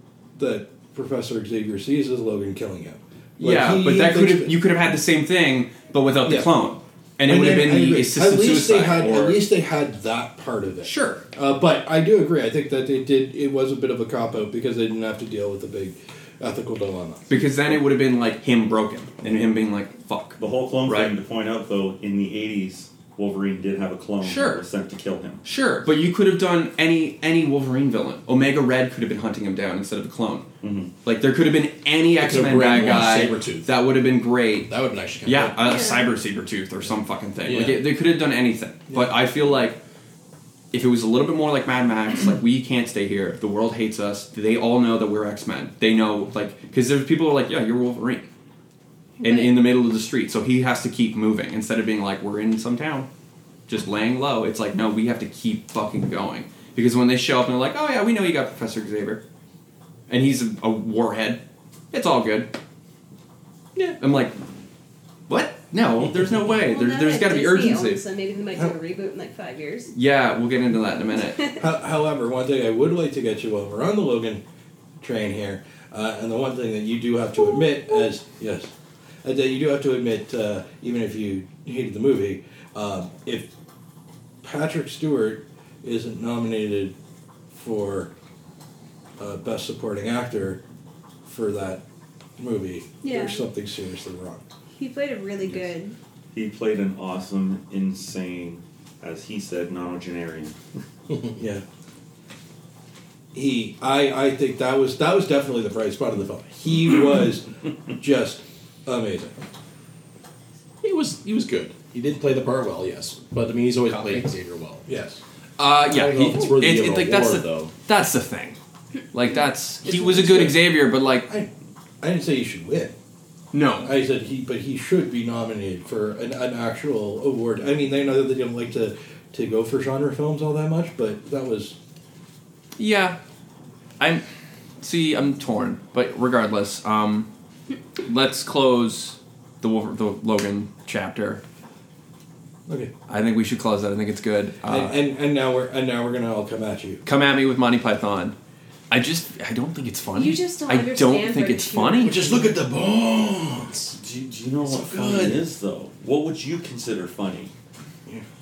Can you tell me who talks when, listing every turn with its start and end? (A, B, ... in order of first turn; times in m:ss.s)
0:00.4-0:04.6 A
0:03.4-0:09.4 B
0:06.2-0:06.5 A
0:07.2-0:17.3 A
0:10.8-0:11.2 B
0:17.3-0:21.1 B
0:20.4-0:25.4 C
0:24.2-0:24.6 B
0:25.4-0:30.5 B
0:30.6-0:30.9 C
0:31.0-0:34.7 B
0:32.2-0:33.7 D
0:34.7-0:35.6 D
0:35.2-0:39.8 B
0:35.6-0:36.1 E
0:37.4-0:37.8 D
0:40.7-0:48.3 B
0:49.2-0:49.6 E
0:49.2-0:53.1 B
0:53.7-0:59.2 B
1:00.1-1:02.5 B
1:04.0-1:04.4 B
1:05.3-1:08.0 B
1:06.5-1:09.9 E
1:09.9-1:11.5 B
1:11.6-1:14.4 A
1:15.0-1:18.7 A
1:17.4-1:18.0 E
1:19.2-1:23.5 A
1:24.4-1:27.0 A
1:27.5-1:28.1 A
1:29.2-1:30.6 A
1:31.2-1:31.8 A
1:32.4-1:34.4 A
1:33.0-1:33.4 E
1:34.8-1:36.0 E
1:36.3-1:40.6 C
1:41.4-1:41.6 A
1:43.3-1:47.5 A
1:48.0-1:49.3 A
1:50.8-1:54.9 D
1:53.9-1:54.3 B
1:54.9-1:55.2 A
1:55.6-1:58.6 B
1:55.8-1:57.7 D
1:59.1-2:01.3 B
1:59.8-2:00.7 A
2:02.0-2:02.9 A
2:03.5-2:03.9 B
2:03.8-2:11.8 A
2:12.8-2:13.2 B
2:14.8-2:17.3 B
2:18.0-2:21.4 B
2:22.7-2:22.9 A
2:23.1-2:25.0 B
2:24.6-2:27.0 A
2:27.0-2:28.4 B
2:28.9-2:32.2 B
2:30.2-2:32.6 E
2:32.0-2:34.0 D
2:34.0-2:37.5 C
2:34.6-2:35.4 D